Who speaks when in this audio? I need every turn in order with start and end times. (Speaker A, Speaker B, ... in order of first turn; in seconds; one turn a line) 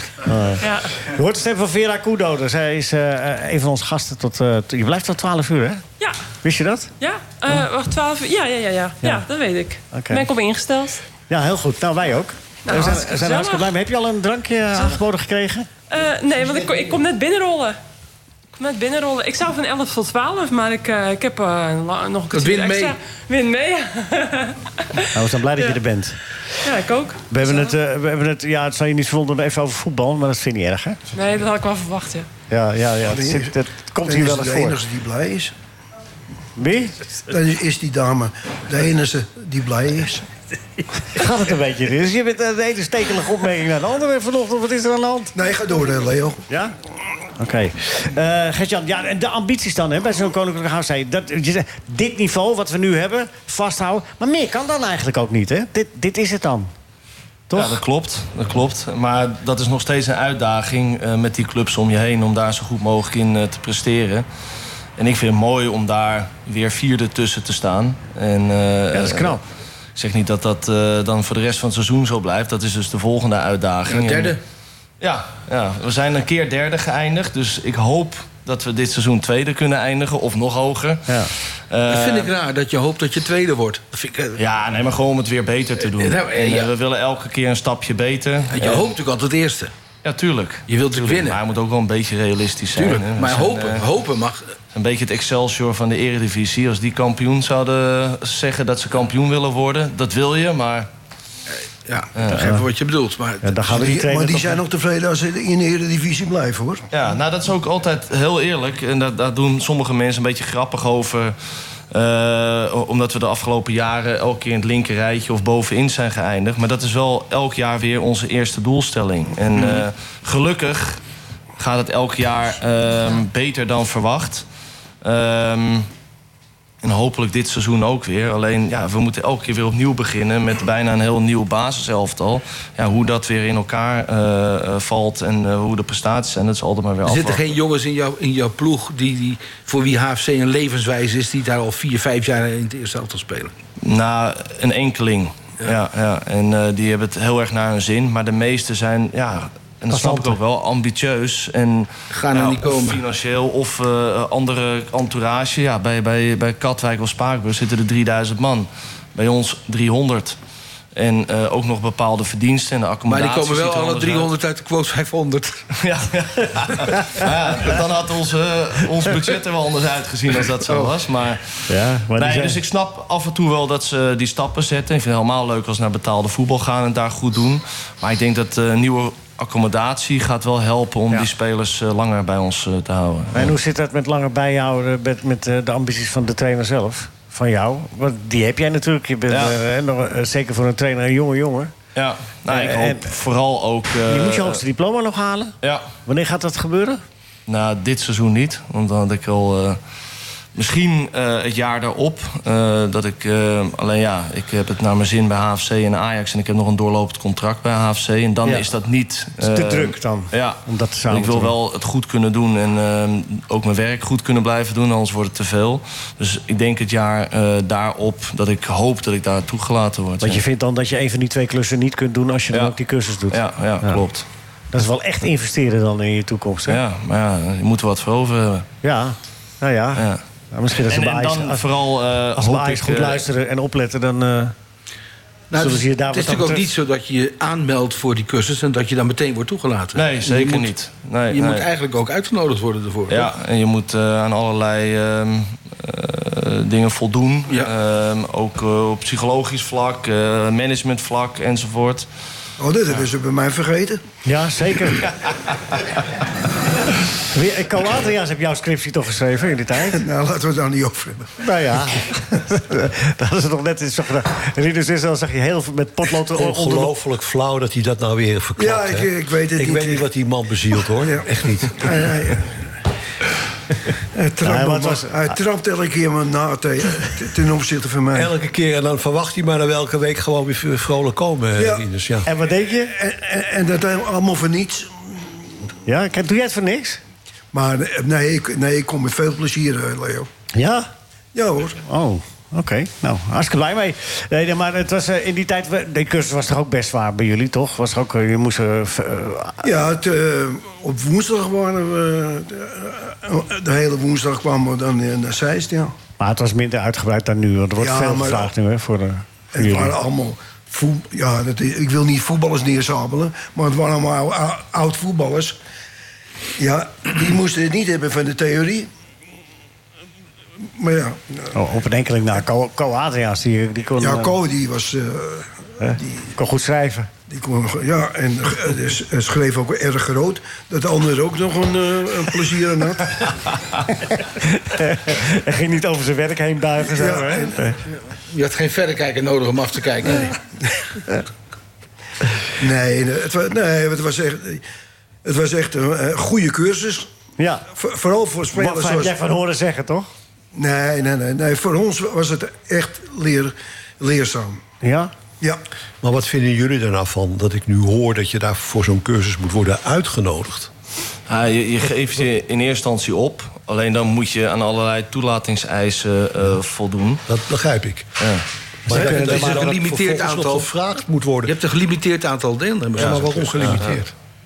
Speaker A: 0.3-5.8
Speaker B: 0.6-0.9
Speaker A: 6.4-6.9
Speaker B: 7.0-11.0
Speaker A: 9.9-10.3
Speaker A: 11.3-15.7
Speaker B: 12.7-13.7
Speaker B: 15.9-17.8
Speaker B: 18.6-25.0
Speaker C: 22.3-23.0
Speaker A: 25.1-26.2
Speaker B: 26.6-27.7
Speaker A: 27.3-31.0
Speaker B: 31.1-32.3
Speaker A: 32.5-34.8
Speaker D: 33.0-33.5
Speaker D: 34.0-35.5
Speaker A: 36.6-37.0
Speaker D: 37.3-40.3
Speaker A: 41.1-45.3
Speaker D: 45.4-46.4
Speaker A: 46.5-46.8
Speaker A: 47.4-56.7
Speaker A: 57.5-57.8
Speaker E: 57.5-64.3
Speaker E: 65.0-69.4
Speaker A: 68.9-69.4
Speaker E: 70.0-74.4
Speaker C: 73.9-74.4
Speaker E: 75.0-82.3
Speaker A: 81.1-81.3
Speaker C: 81.9-84.4
Speaker E: 84.4-88.9
Speaker C: 85.8-86.7
Speaker C: 88.5-89.7
Speaker E: 90.0-93.9
Speaker C: 90.7-91.4
Speaker C: 92.8-94.5
Speaker E: 94.7-100.9
Speaker C: 101.8-103.9
Speaker E: 102.2-102.5
Speaker A: 102.3-102.7
Speaker A: 103.4-104.6
Speaker D: 103.7-106.8
Speaker E: 106.9-111.3
Speaker E: 111.9-121.0
Speaker E: 121.6-124.5
Speaker E: 125.0-125.9
Speaker E: 126.8-137.5
Speaker C: 137.1-143.5
Speaker E: 143.8-160.4
Speaker A: 149.9-150.4
Speaker C: 152.1-153.0
Speaker E: 160.9-164.3
Speaker C: 163.1-165.6
Speaker E: 165.8-183.5
Speaker C: 170.7-170.9
Speaker A: 171.7-172.6
Speaker A: 183.3-191.7
Speaker E: 189.3-189.6
Speaker E: 191.9-194.6
Speaker A: 192.5-193.1
Speaker A: 194.1-195.6
Speaker E: 195.6-195.9
Speaker A: 196.1-197.0
Speaker E: 197.5-199.8
Speaker E: 200.6-220.4
Speaker A: 209.4-211.5
Speaker A: 220.2-224.0
Speaker E: 223.3-224.3
Speaker A: 224.7-226.8
Speaker E: 226.7-228.7
Speaker A: 228.8-231.6
Speaker E: 230.0-230.2
Speaker E: 230.8-233.2
Speaker A: 232.4-234.5
Speaker C: 235.5-240.7
Speaker A: 235.6-236.7
Speaker E: 239.9-241.7
Speaker C: 241.3-243.3
Speaker E: 243.1-252.1
Speaker D: 252.6-254.0
Speaker A: 254.3-255.1
Speaker A: 257.2-260.0
Speaker D: 260.0-261.3
Speaker A: 261.4-266.9
Speaker F: 266.3-272.1
Speaker D: 268.6-270.1
Speaker D: 271.8-272.6
Speaker D: 274.1-278.3
Speaker A: 274.4-275.4
Speaker F: 278.1-282.3
Speaker D: 281.6-281.9
Speaker A: 282.3-282.9
Speaker D: 282.9-285.2
Speaker A: 285.9-287.0
Speaker D: 287.5-290.3
Speaker A: 290.5-290.9
Speaker D: 291.3-291.8
Speaker A: 291.8-299.6
Speaker D: 299.6-305.9
Speaker A: 306.2-309.9
Speaker D: 307.8-308.5
Speaker D: 309.6-315.6
Speaker D: 316.6-318.9
Speaker D: 320.8-321.5
Speaker A: 321.5-324.3
Speaker D: 324.0-326.3
Speaker A: 325.8-327.1
Speaker D: 327.3-333.6
Speaker A: 334.4-337.8
Speaker D: 336.9-337.6
Speaker C: 338.3-340.4
Speaker D: 342.6-344.6
Speaker D: 345.2-347.1
Speaker A: 347.4-347.7
Speaker D: 347.7-349.2
Speaker A: 348.5-350.1
Speaker D: 350.6-354.6
Speaker A: 354.8-355.1
Speaker F: 356.0-360.7
Speaker E: 361.3-367.2
Speaker F: 367.3-368.1
Speaker E: 368.2-368.4
Speaker F: 368.9-371.6
Speaker A: 368.9-369.8
Speaker C: 368.9-370.7
Speaker C: 371.4-374.0
Speaker E: 373.0-373.9
Speaker F: 373.0-374.1